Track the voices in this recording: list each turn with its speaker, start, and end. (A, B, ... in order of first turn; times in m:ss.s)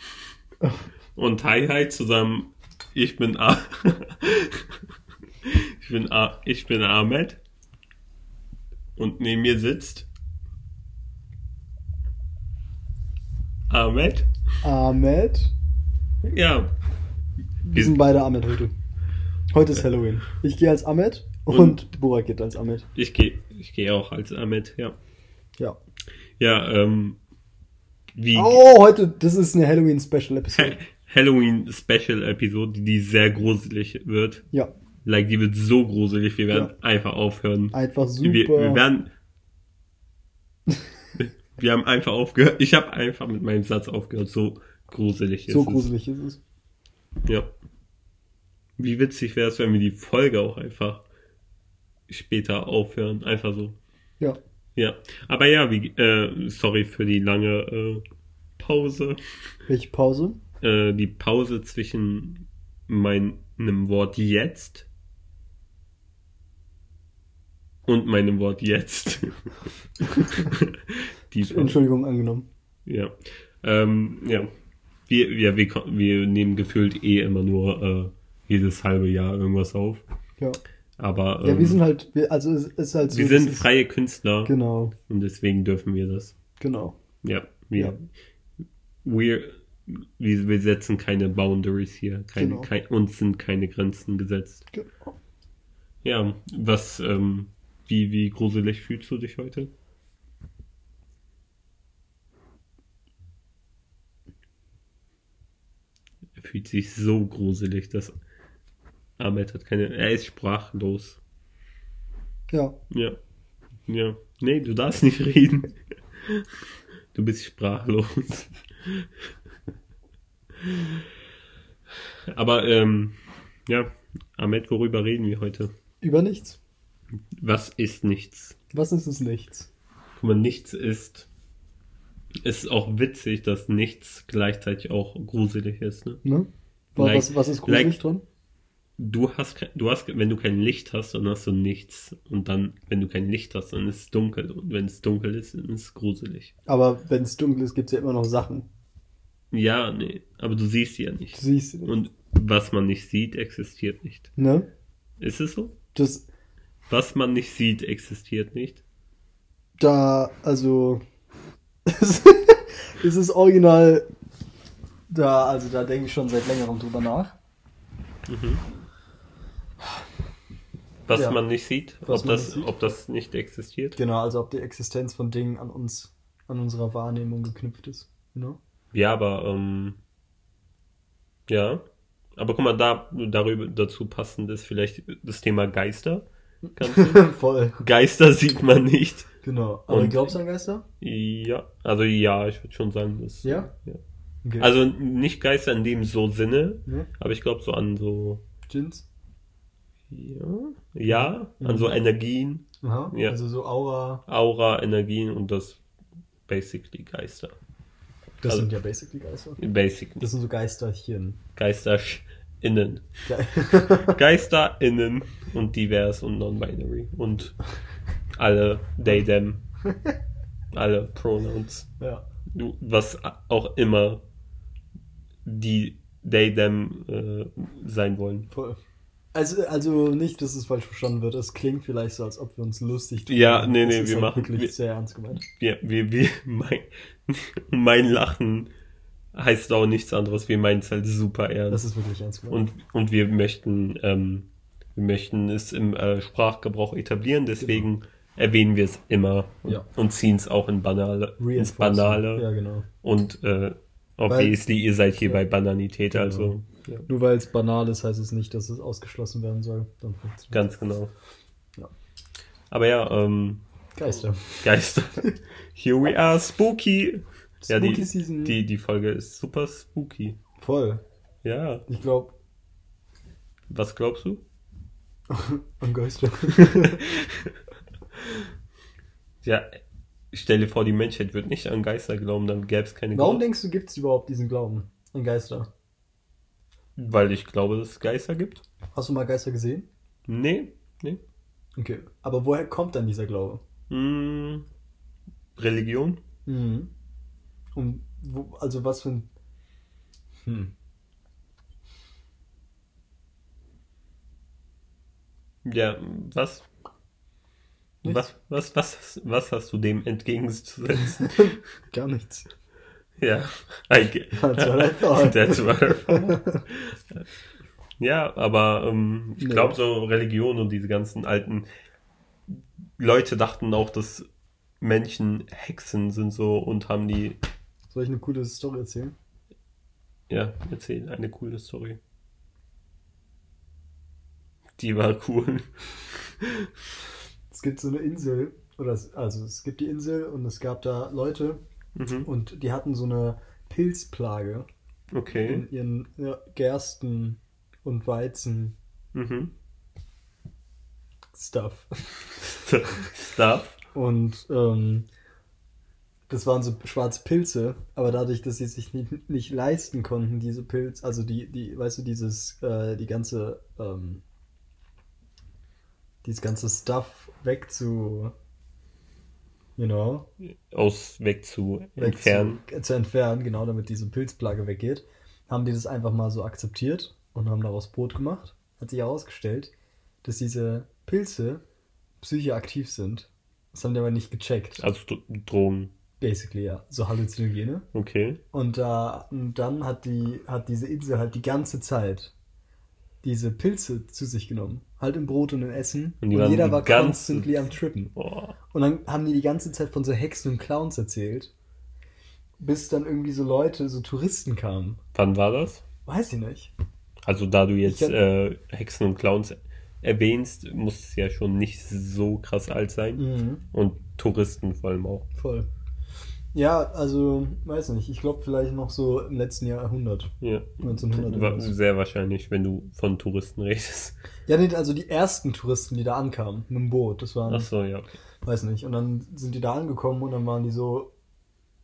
0:01.2-0:04.7 A
0:05.4-0:07.4 A
0:09.0-0:10.1 A
0:13.7-0:14.3 A
0:14.6-0:15.5 B
0:16.2-0:16.7 A
0:17.6-0:18.7 B
0:19.5-0:22.8 B
0:21.5-0:21.8 A
0:22.9-0:25.0 A
0:26.4-0:27.2 A
0:28.2-0:28.6 A
0:28.3-0:30.8 B
0:30.5-0:34.4 A
0:35.0-0:39.1 A
0:37.7-0:38.8 B
0:41.2-0:45.9 A
0:45.5-0:46.4 B
0:47.2-0:47.5 A
0:48.8-0:51.0 A
0:52.1-0:53.8 A
0:54.8-0:58.0 A
0:58.6-0:59.2 A
0:59.7-1:00.4 B
1:00.6-1:04.9 A
1:07.8-1:09.5 A
1:10.0-1:11.8 A
1:11.4-1:12.5 B
1:12.8-1:14.5 A
1:15.1-1:20.0 A
1:21.0-1:21.8 A
1:21.4-1:23.7 B
1:23.1-1:24.5 A
1:24.4-1:24.9 B
1:25.1-1:26.3 A
1:26.6-1:27.0 B
1:27.2-1:28.1 A
1:29.0-1:34.6 A
1:32.4-1:32.7 B
1:34.7-1:35.1 B
1:36.0-1:39.7 A
1:46.4-1:48.1 A
1:49.2-1:51.2 A
1:52.9-1:53.2 A
1:53.9-1:56.5 A
1:57.1-1:59.1 A
2:00.6-2:01.0 A
2:02.3-2:03.1 A
2:03.7-2:05.7 A
2:06.0-2:06.6 B
2:07.4-2:08.6 A
2:08.7-2:09.7 B
2:10.2-2:11.3 A
2:12.4-2:16.2 A
2:16.2-2:18.2 B
2:17.0-2:18.0 A
2:19.0-2:26.5 A
2:26.7-2:28.7 B
2:29.5-2:34.3 A
2:31.3-2:31.9 B
2:34.4-2:34.7 B
2:35.2-2:35.7 A
2:35.9-2:36.3 B
2:36.9-2:38.8 A
2:39.8-2:41.0 B
2:41.8-2:44.0 B
2:45.1-2:47.4 B
2:48.3-2:48.6 A
2:51.1-2:54.0 A
2:51.1-2:51.4 B
2:52.0-2:52.8 B
2:54.0-2:58.6 B
2:58.9-3:00.0 A
3:01.5-3:01.8 A
3:02.4-3:07.2 A
3:06.7-3:07.8 B
3:07.8-3:09.3 A
3:09.4-3:10.8 B
3:09.9-3:10.3 A
3:11.0-3:14.0 A
3:13.4-3:13.7 B
3:14.4-3:14.7 B
3:14.6-3:18.4 A
3:18.7-3:19.0 B
3:20.1-3:23.4 A
3:21.1-3:21.9 B
3:22.8-3:24.2 B
3:24.3-3:25.8 A
3:26.5-3:27.6 A
3:28.4-3:29.6 B
3:29.6-3:30.3 A
3:30.2-3:31.4 B
3:31.6-3:33.0 A
3:33.3-3:34.2 B
3:34.1-3:37.6 A
3:38.4-3:39.6 A
3:39.8-3:40.1 B
3:40.7-3:41.9 A
3:42.5-3:44.2 A
3:45.4-3:48.5 A
3:48.5-3:48.8 B
3:49.3-3:55.4 B
3:53.3-3:54.7 A
3:55.5-3:58.7 A
3:59.3-4:01.8 A
4:01.7-4:02.7 B
4:02.5-4:12.4 A
4:07.6-4:07.9 B
4:11.4-4:12.8 B
4:13.0-4:17.1 A
4:14.3-4:14.6 B
4:16.1-4:16.5 B
4:17.1-4:20.7 B
4:20.5-4:21.1 A
4:22.7-4:23.6 A
4:24.0-4:24.7 B
4:24.6-4:30.4 A
4:27.6-4:28.6 B
4:30.6-4:31.0 B
4:31.4-4:31.8 A
4:31.9-4:32.3 B
4:33.7-4:34.4 A
4:35.3-4:37.0 B
4:36.6-4:37.5 A
4:40.3-4:43.4 A
4:43.1-4:45.7 B
4:47.0-4:48.6 A
4:48.9-4:49.9 B
4:50.3-4:51.2 A
4:51.8-4:53.6 B
4:53.9-4:54.6 A
4:55.6-4:56.2 A
4:56.4-4:56.9 B
4:57.7-4:59.3 B
5:00.4-5:00.7 B
5:05.6-5:06.7 A
5:08.0-5:11.5 A
5:11.2-5:12.5 B
5:13.2-5:17.2 A
5:14.3-5:16.6 B
5:18.0-5:21.6 A
5:19.4-5:19.8 B
5:22.5-5:24.2 A
5:24.8-5:27.4 A
5:27.9-5:29.1 B
5:30.3-5:32.0 A
5:34.8-5:36.7 A
5:37.5-5:41.6 B
5:42.0-5:42.3 A
5:42.2-5:44.7 B
5:45.1-5:45.6 A
5:45.4-5:48.7 B
5:49.1-5:49.5 A
5:51.3-5:52.2 B
5:52.4-5:53.8 A
5:53.9-5:55.1 B
5:56.3-6:04.2 B
6:06.2-6:08.3 B
6:09.8-6:10.3 B
6:10.7-6:12.6 A
6:12.0-6:19.7 B
6:20.2-6:21.6 B
6:22.2-6:24.8 B
6:24.8-6:25.9 A
6:26.2-6:27.8 B
6:27.9-6:28.4 A
6:28.5-6:32.3 B
6:33.2-6:38.1 B
6:36.2-6:38.5 A
6:38.7-6:41.5 B
6:42.6-6:45.0 B
6:45.1-6:45.8 A
6:46.0-6:46.7 B
6:47.3-6:55.2 A
6:47.8-6:48.2 B
6:53.2-6:53.6 B
6:55.3-6:55.7 B
6:56.5-7:01.8 B
7:00.4-7:04.2 A
7:04.5-7:07.7 B
7:07.5-7:08.1 A
7:08.4-7:11.1 B